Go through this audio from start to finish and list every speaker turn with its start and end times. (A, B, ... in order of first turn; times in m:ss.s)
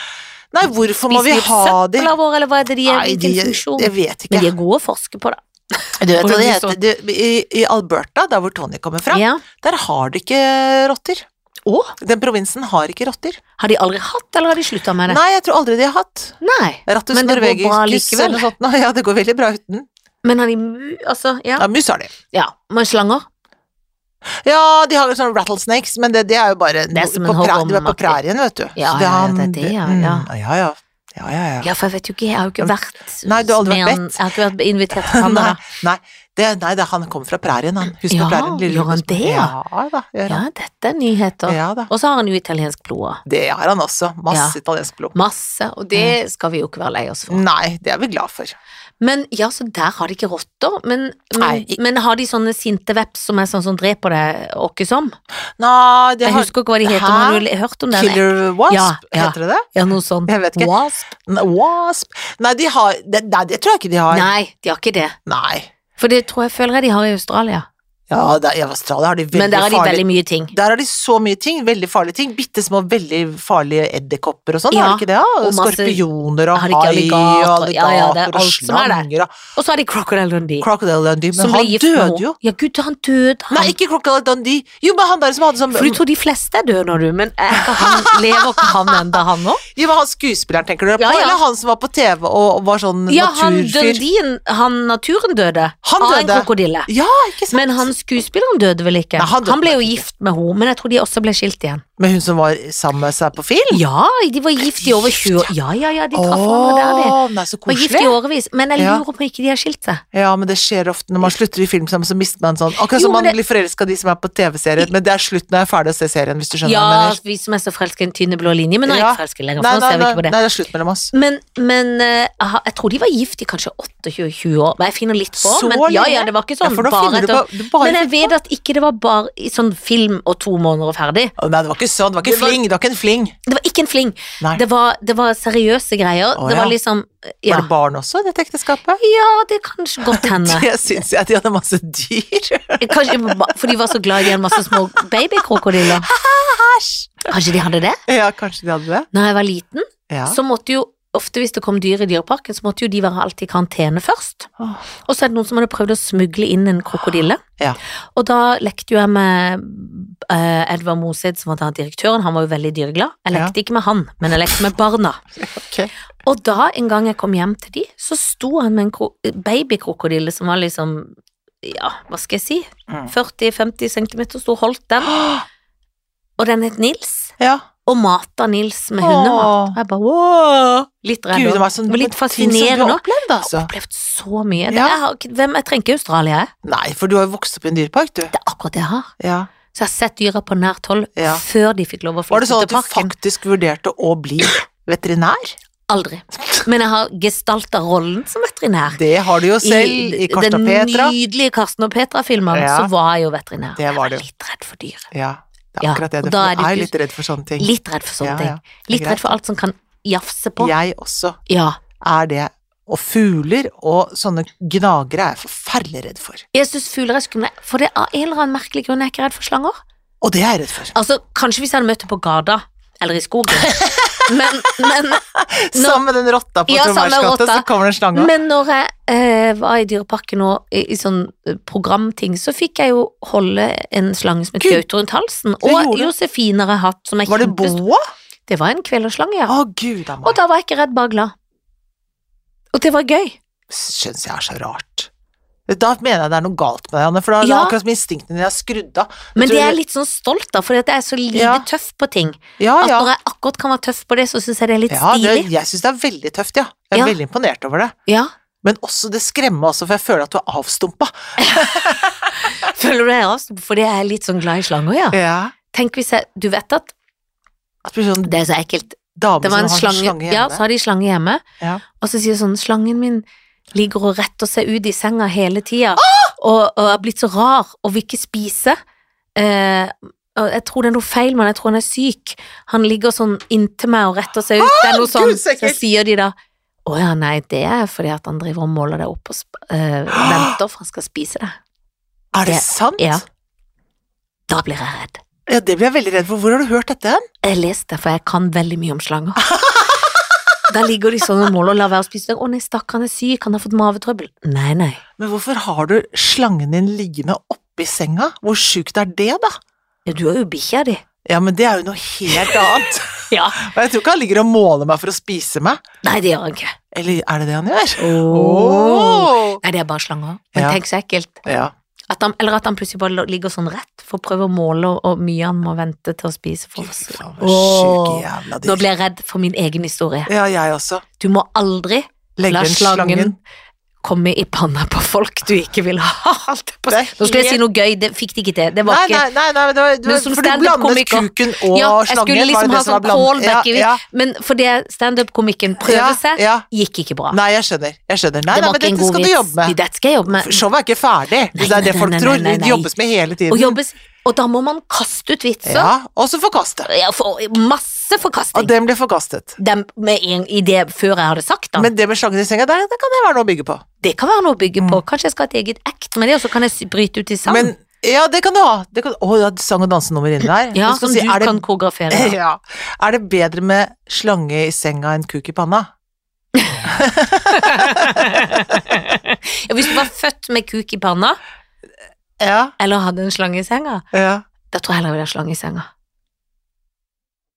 0:00.5-0:02.1 A
0:01.1-0:06.8 B
0:02.8-0:04.5 A
0:06.0-0:11.3 A
0:09.1-0:09.4 B
0:11.7-0:12.0 B
0:12.0-0:13.4 A
0:13.6-0:15.2 B
0:15.1-0:19.9 A
0:16.4-0:18.5 B
0:20.2-0:21.7 B
0:21.6-0:22.1 A
0:22.3-0:23.3 B
0:24.4-0:31.7 A
0:26.9-0:28.2 B
0:28.8-0:30.3 B
0:31.6-0:35.6 B
0:32.6-0:34.2 A
0:34.9-0:40.4 A
0:38.1-0:39.5 B
0:40.3-0:43.2 B
0:41.5-0:41.9 A
0:43.3-0:45.2 A
0:44.3-0:44.6 B
0:45.1-0:47.4 B
0:47.3-0:48.6 A
0:49.0-0:55.2 B
0:51.4-0:51.8 A
0:55.6-0:59.7 A
0:56.2-1:01.1 B
1:00.3-1:04.3 A
1:04.1-1:05.2 B
1:05.3-1:05.7 A
1:06.0-1:07.7 B
1:08.1-1:19.3 A
1:09.3-1:10.5 B
1:14.7-1:16.0 B
1:16.5-1:20.7 B
1:20.6-1:22.4 A
1:21.3-1:23.7 B
1:23.5-1:26.0 A
1:25.7-1:29.6 B
1:27.6-1:29.2 A
1:29.7-1:34.0 A
1:31.0-1:31.4 B
1:33.1-1:36.9 B
1:35.8-1:37.9 A
1:37.5-1:41.8 B
1:39.2-1:40.1 A
1:42.0-1:43.8 A
1:43.7-1:47.2 B
1:44.7-1:45.5 A
1:46.1-1:48.2 A
1:47.7-1:50.0 B
1:48.8-1:49.0 A
1:50.1-1:57.2 A
1:52.9-1:53.4 B
1:56.6-2:00.4 B
1:58.9-2:01.1 A
2:01.1-2:11.3 B
2:05.4-2:08.3 A
2:11.4-2:13.4 A
2:12.2-2:12.6 B
2:13.5-2:17.7 B
2:16.4-2:16.8 A
2:17.5-2:19.0 A
2:19.0-2:20.7 B
2:20.0-2:24.8 A
2:22.8-2:26.1 B
2:25.6-2:27.3 A
2:27.3-2:28.0 B
2:28.1-2:29.1 A
2:29.1-2:34.5 B
2:30.1-2:30.4 A
2:35.1-2:37.4 B
2:38.2-2:45.2 B
2:44.3-2:44.6 A
2:45.4-2:45.9 A
2:46.3-2:55.2 B
2:55.0-2:55.4 A
2:56.4-2:57.3 B
2:57.4-2:57.6 A
2:57.9-3:06.5 B
2:59.0-2:59.8 A
3:01.3-3:03.7 A
3:04.7-3:05.0 A
3:06.6-3:08.3 A
3:08.3-3:09.1 B
3:09.2-3:09.5 A
3:09.7-3:13.1 B
3:11.2-3:11.4 A
3:12.3-3:15.6 A
3:15.9-3:19.0 B
3:16.4-3:16.6 A
3:18.9-3:21.1 A
3:19.6-3:25.1 B
3:22.5-3:22.9 A
3:23.8-3:24.2 A
3:25.1-3:29.4 A
3:25.8-3:26.9 B
3:27.6-3:30.7 B
3:30.6-3:31.4 A
3:31.5-3:31.8 B
3:32.0-3:36.4 A
3:36.5-3:39.8 B
3:40.2-3:40.9 A
3:40.9-3:46.0 B
3:43.6-3:44.4 A
3:45.4-3:48.3 A
3:46.7-3:57.8 B
3:55.6-3:56.1 A
3:57.3-3:58.0 A
3:58.5-3:59.5 B
3:59.5-4:00.4 A
4:00.2-4:01.3 B
4:02.7-4:03.4 B
4:03.7-4:05.1 A
4:05.7-4:09.8 A
4:07.4-4:07.8 B
4:09.4-4:15.5 B
4:11.3-4:11.7 A
4:12.6-4:13.1 A
4:14.9-4:17.9 A
4:18.1-4:18.3 B
4:18.6-4:22.2 A
4:21.4-4:25.2 B
4:25.1-4:25.5 A
4:25.7-4:26.9 B
4:27.8-4:28.3 A
4:28.2-4:31.4 B
4:29.2-4:30.6 A
4:32.0-4:38.8 B
4:36.0-4:36.3 A
4:39.4-4:46.3 B
4:44.6-4:45.8 A
4:46.9-4:51.6 B
4:50.1-4:50.6 A
4:52.3-4:53.2 A
4:52.5-4:53.2 B
4:54.5-4:55.2 B
4:55.5-4:57.2 A
4:57.4-4:59.4 B
4:59.5-5:00.2 A
5:00.7-5:05.0 B
5:05.2-5:09.6 A
5:10.1-5:11.0 B
5:11.2-5:15.8 A
5:12.3-5:12.6 B
5:13.3-5:13.6 B
5:16.0-5:16.7 B
5:16.9-5:19.6 A
5:18.0-5:21.4 B
5:21.4-5:21.7 A
5:22.1-5:30.3 B
5:26.8-5:28.9 A
5:30.3-5:31.0 A
5:31.2-5:33.4 B
5:32.4-5:33.4 A
5:34.0-5:39.2 B
5:36.9-5:37.6 A
5:38.8-5:44.0 A
5:40.1-5:47.4 B
5:45.8-5:46.6 A
5:47.3-5:49.8 A
5:48.5-5:50.6 B
5:50.3-5:53.8 A
5:51.6-5:52.9 B
5:53.5-5:55.9 B
5:55.6-5:56.9 A
5:56.9-5:58.7 B
5:58.5-5:59.6 A
5:59.6-6:01.9 B
6:01.8-6:03.8 A
6:04.0-6:07.7 B
6:07.5-6:15.9 A
6:10.7-6:12.4 B
6:16.6-6:16.9 B
6:16.8-6:19.0 A
6:17.5-6:21.4 B
6:22.4-6:22.7 A
6:22.8-6:24.0 B
6:24.1-6:24.4 A
6:24.7-6:25.9 B